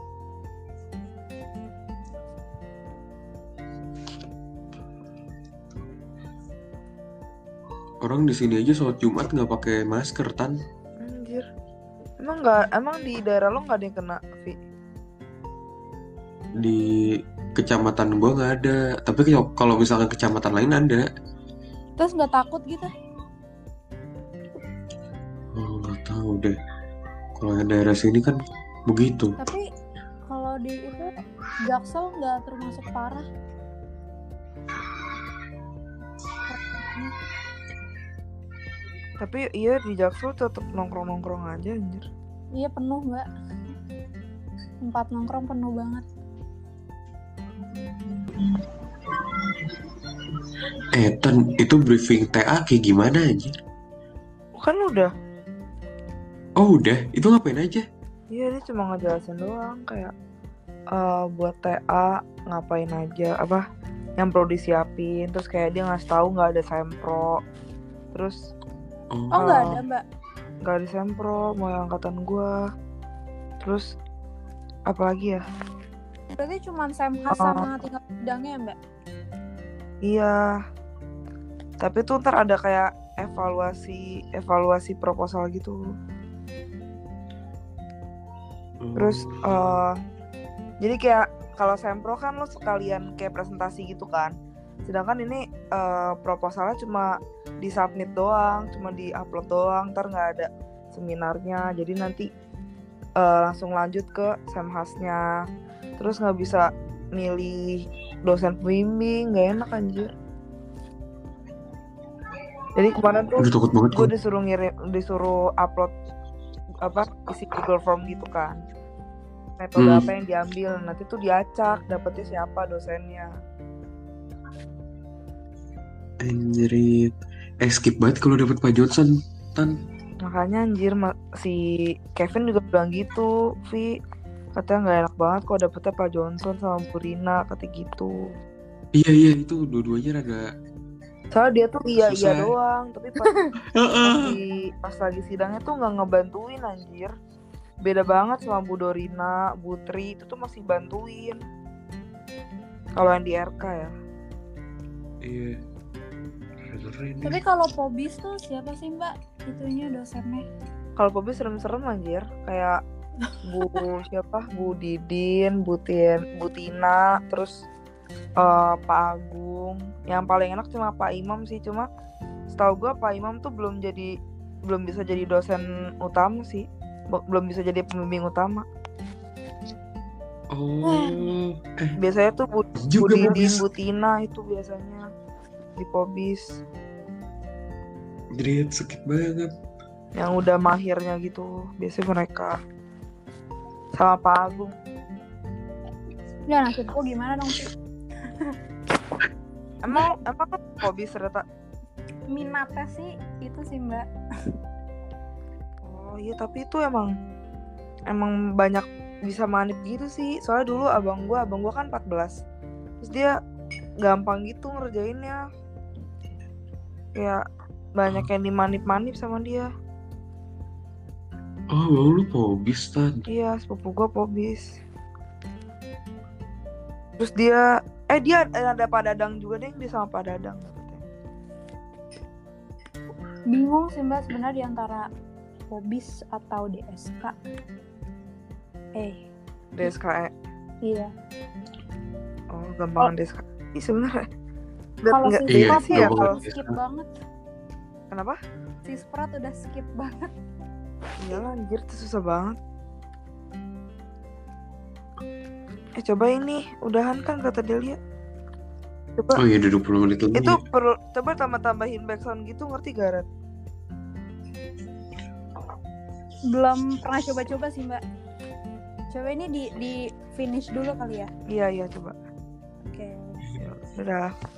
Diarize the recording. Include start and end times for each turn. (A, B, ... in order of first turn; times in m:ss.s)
0:08.0-0:10.6 A
0:11.0-0:11.5 B
0:12.2-0:14.6 B
0:16.6-0:21.1 A
0:22.0-0:22.9 C
0:25.6-0:26.6 A
0:27.4-0:29.4 A
0:29.4-0:29.6 C
0:30.3-0:31.1 C
0:31.6-0:33.3 C
0:36.5-0:37.1 C
0:39.2-0:42.0 B
0:42.6-0:43.3 C
0:44.8-0:46.0 C
0:50.9-0:53.6 A
0:54.6-0:55.1 B
0:56.6-0:57.8 A
0:58.3-1:00.1 B
1:00.9-1:03.6 B
1:04.2-1:07.4 B
1:08.1-1:08.4 B
1:09.1-1:09.8 A
1:09.3-1:10.0 C
1:09.3-1:09.8 B
1:10.6-1:12.6 B
1:13.6-1:13.9 B
1:14.9-1:15.4 B
1:16.4-1:18.8 C
1:17.3-1:17.7 B
1:20.0-1:20.6 B
1:21.8-1:25.8 B
1:28.8-1:29.8 A
1:29.0-1:30.0 B
1:30.8-1:34.4 B
1:34.9-1:42.3 B
1:43.2-1:45.2 B
1:46.0-1:50.1 B
1:52.8-1:55.9 B
1:53.4-1:54.1 A
1:56.8-1:58.6 B
1:59.6-2:03.3 B
1:59.8-2:00.1 A
2:06.2-2:09.7 A
2:10.2-2:14.0 B
2:14.6-2:18.3 B
2:18.9-2:20.5 A
2:21.3-2:23.3 B
2:22.0-2:22.5 A
2:23.2-2:23.5 C
2:23.8-2:24.4 A
2:24.0-2:27.1 B
2:27.8-2:31.4 B
2:33.0-2:33.9 B
2:35.2-2:35.6 A
2:36.7-2:37.4 A
2:37.2-2:40.5 C
2:41.0-2:42.8 B
2:43.4-2:47.6 B
2:48.4-2:51.9 B
2:52.5-2:54.1 B
2:54.7-2:58.7 B
3:00.5-3:02.0 A
3:00.8-3:01.3 C
3:02.0-3:05.1 B
3:02.8-3:03.6 A
3:05.8-3:06.6 B
3:08.4-3:09.5 A
3:10.2-3:12.6 B
3:14.0-3:14.8 B
3:16.5-3:17.7 C
3:19.8-3:21.4 B
3:22.3-3:24.1 C
3:25.8-3:27.1 B
3:28.1-3:32.4 B
3:33.0-3:33.4 B
3:34.0-3:35.4 B
3:37.2-3:37.4 B
3:38.0-3:39.7 B
3:41.7-3:43.2 A
3:43.3-3:44.8 B
3:47.2-3:51.0 B
3:53.5-3:55.1 C
3:55.7-3:57.4 C
3:59.0-3:59.2 C
3:59.8-4:00.3 B
4:00.8-4:01.1 C
4:02.5-4:04.3 B
4:05.0-4:06.4 B
4:05.1-4:07.1 C
4:05.5-4:06.7 A
4:08.1-4:08.4 B
4:08.8-4:10.3 C
4:11.2-4:12.6 B
4:16.0-4:18.0 B
4:19.4-4:20.6 A
4:20.4-4:23.3 B
4:26.5-4:28.0 C
4:29.1-4:31.3 C
4:31.5-4:32.2 B
4:32.8-4:33.4 C
4:33.6-4:34.3 B